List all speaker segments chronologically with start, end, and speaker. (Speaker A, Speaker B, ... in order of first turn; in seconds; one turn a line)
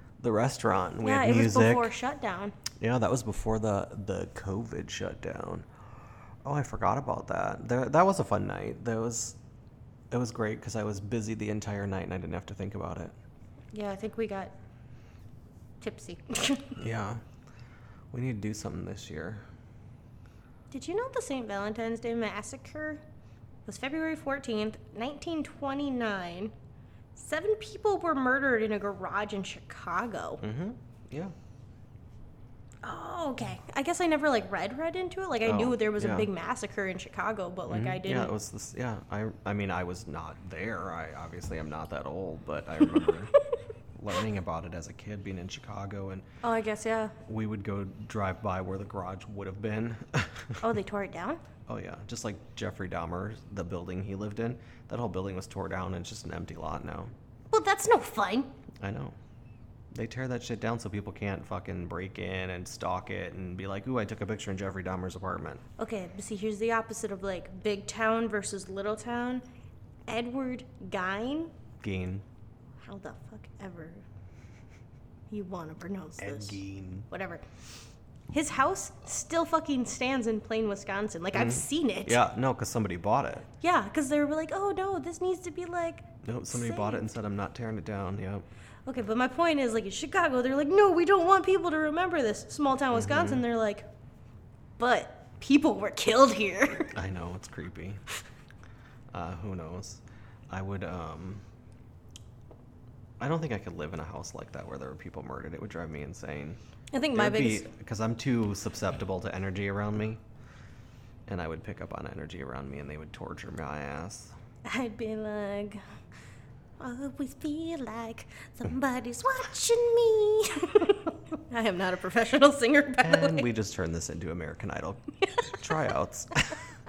Speaker A: 0.2-1.9
Speaker B: 1.0-2.5
Speaker A: 2.8-5.7
Speaker A: 6.4-9.4
Speaker A: 10.1-13.1
Speaker B: 13.7-14.5
Speaker B: 15.8-16.7
Speaker A: 16.8-17.2
Speaker A: 18.1-19.4
Speaker B: 20.7-23.0
Speaker B: 23.7-26.5
Speaker B: 27.1-30.4
Speaker A: 30.4-31.3
Speaker B: 32.8-38.3
Speaker A: 35.4-36.3
Speaker A: 37.7-43.3
Speaker A: 44.0-46.2
Speaker B: 46.4-47.1
Speaker A: 47.2-50.6
Speaker B: 50.6-51.4
Speaker A: 51.7-57.1
Speaker B: 57.5-58.5
Speaker A: 58.8-59.2
Speaker A: 59.9-65.6
Speaker B: 65.8-69.4
Speaker B: 70.1-71.5
Speaker A: 71.8-72.2
Speaker B: 72.8-74.0
Speaker B: 75.3-76.6
Speaker A: 76.2-77.1
Speaker B: 77.1-77.4
Speaker B: 78.3-82.2
Speaker A: 81.3-83.5
Speaker B: 83.6-87.1
Speaker A: 86.2-88.5
Speaker B: 88.9-93.9
Speaker A: 92.9-93.4
Speaker B: 94.8-96.9
Speaker A: 96.9-98.0
Speaker A: 99.1-101.4
Speaker A: 103.2-106.6
Speaker B: 106.9-107.7
Speaker A: 107.1-110.2
Speaker A: 111.2-114.3
Speaker B: 114.6-115.8
Speaker B: 116.8-123.5
Speaker A: 123.0-125.0
Speaker A: 125.5-126.5